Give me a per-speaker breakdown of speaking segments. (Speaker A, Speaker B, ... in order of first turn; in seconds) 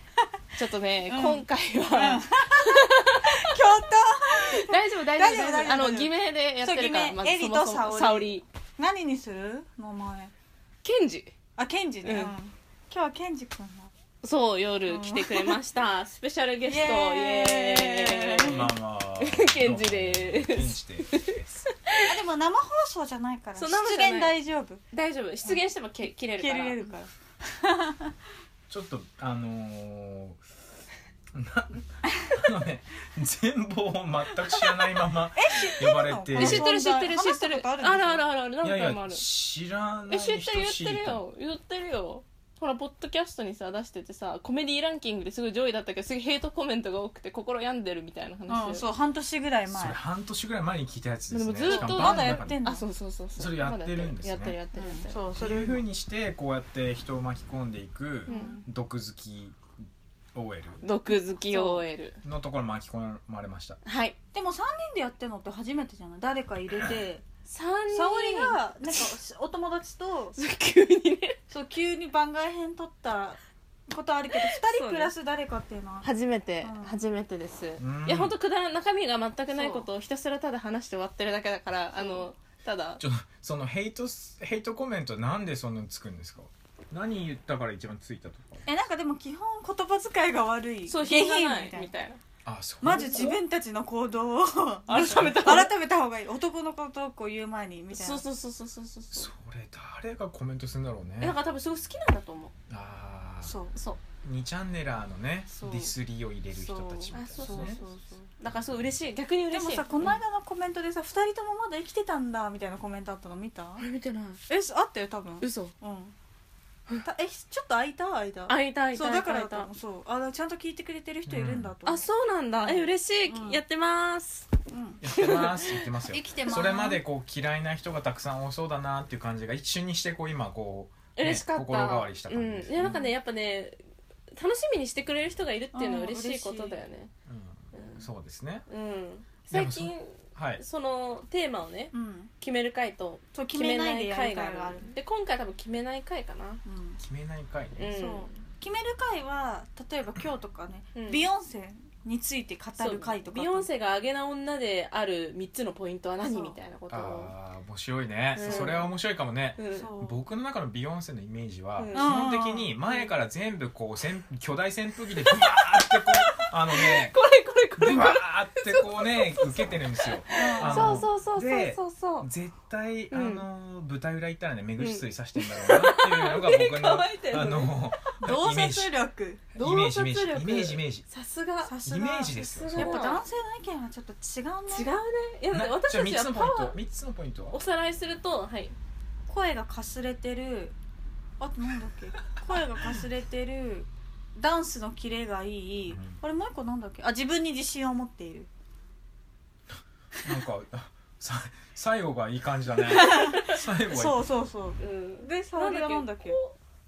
Speaker A: 0.6-3.6, 4.3-8.4, 10.8-11.3, 12.0-12.3, 14.2-22.0, 23.6-24.4, 24.9-26.9, 36.4-39.2, 40.1-48.8, 51.3-55.2, 58.3-58.6, 60.8-62.2, 63.8-64.2, 67.5-69.1, 70.3-71.4, 74.3-75.1, 76.0-83.0, 90.9-92.2, 92.9-93.4, 94.9-95.7, 97.9-99.3, 101.2-102.5, 103.7-104.0, 107.1-107.9, 108.4-110.2, 113.8-114.4, 115.4-115.7, 118.5-119.7, 121.8-124.5, 125.1-126.0, 131.2-133.8, 134.3-137.1, 137.7-138.1, 138.7-146.6, 147.8-148.4, 150.9-151.2, 152.8-157.3, 158.3-158.9, 159.6-159.9, 161.8-162.1, 162.8-163.1, 165.1-172.3, 173.1-173.4, 174.8-177.9, 179.5-181.8, 182.4-183.2, 184.7-186.8, 187.5-188.7, 203.0-203.6, 204.8-206.6
Speaker B: 1.0-10.3, 11.6-13.9, 14.8-15.6, 16.6-18.7, 22.0-24.8, 25.4-28.1, 35.3-38.2, 48.5-50.0, 51.6-52.9, 54.7-55.8, 58.2-58.6, 61.1-61.8, 64.3-67.2, 67.9-70.4, 71.5-76.1, 76.6-77.0, 79.5-79.9, 82.0-82.2, 88.7-91.9, 92.8-98.2, 103.4-103.8, 105.5-105.9, 106.5-108.3, 109.5-113.8, 114.5-116.1, 117.0-122.0, 122.5-123.6, 124.7-125.0, 126.0-127.0, 135.7-136.8, 141.9-142.3, 143.3-145.0, 146.6-147.0, 147.8-153.7, 156.2-156.6, 158.4-158.9, 159.7-160.2, 161.9-162.7, 170.3-171.0, 178.2-179.4, 181.6-184.9, 189.3-190.8, 191.4-198.5, 202.9-206.4
Speaker C: 18.4-21.5, 28.7-30.4, 31.3-36.6, 38.6-41.2, 49.7-52.6, 53.4-54.6, 55.4-59.6, 60.3-60.8, 62.2-63.8, 77.8-78.3, 83.0-88.7, 92.4-93.3, 99.1-101.4, 102.7-103.6, 104.2-107.8, 108.5-108.7, 121.2-121.7, 125.0-133.1, 137.2-138.7, 139.5-140.6, 147.0-147.9, 156.9-167.2, 167.8-179.0, 179.6-181.1, 181.8-183.0, 185.5-187.6, 195.9-196.2, 200.2-204.2